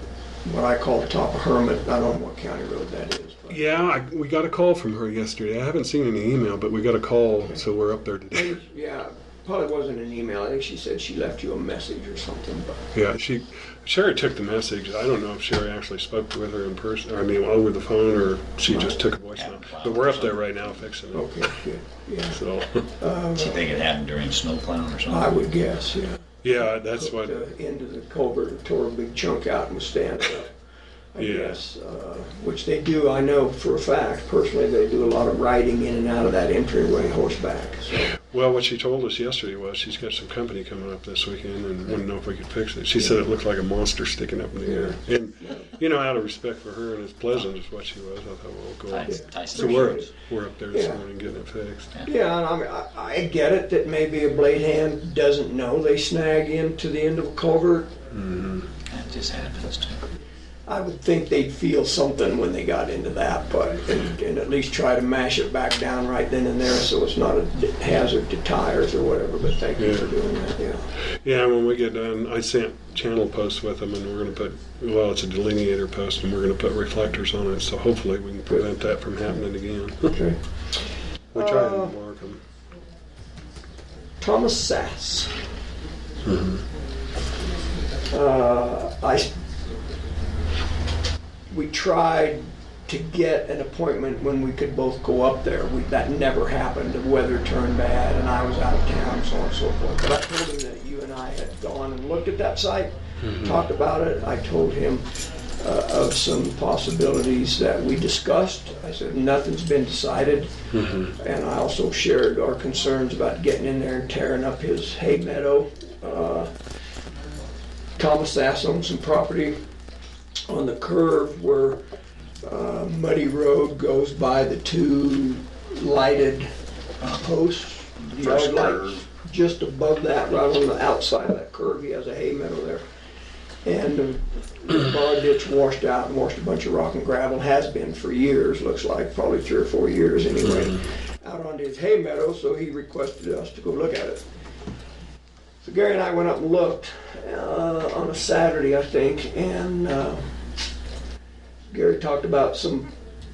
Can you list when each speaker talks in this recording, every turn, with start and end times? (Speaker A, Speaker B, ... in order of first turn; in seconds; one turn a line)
Speaker A: 0.4-3.6
Speaker B: 3.5-8.6
Speaker A: 8.3-12.8
Speaker B: 12.9-21.6
Speaker A: 18.7-19.0
Speaker C: 19.4-20.6
Speaker A: 21.1-22.4
Speaker B: 22.3-22.9
Speaker A: 22.9-23.7
Speaker C: 23.4-25.3
Speaker A: 25.1-30.5
Speaker B: 26.4-27.4
Speaker A: 31.1-38.1
Speaker B: 31.2-31.6
Speaker B: 38.1-51.9
Speaker A: 44.6-45.7
Speaker C: 48.9-50.1
Speaker A: 49.0-50.1
Speaker A: 50.7-51.0
Speaker A: 52.0-57.9
Speaker B: 58.1-58.7
Speaker C: 58.9-60.0
Speaker A: 60.6-70.9
Speaker B: 69.8-70.1
Speaker B: 71.2-80.2
Speaker A: 80.0-80.4
Speaker B: 81.3-82.4
Speaker A: 81.3-81.9
Speaker A: 84.2-85.4
Speaker B: 86.2-86.6
Speaker A: 88.1-89.3
Speaker A: 91.5-110.5
Speaker B: 103.2-103.6
Speaker B: 110.7-111.1
Speaker A: 111.2-116.5
Speaker A: 118.0-119.6
Speaker A: 120.5-121.8
Speaker A: 122.4-132.8
Speaker C: 128.0-129.0
Speaker A: 133.6-144.2
Speaker A: 145.6-150.3
Speaker A: 151.7-152.9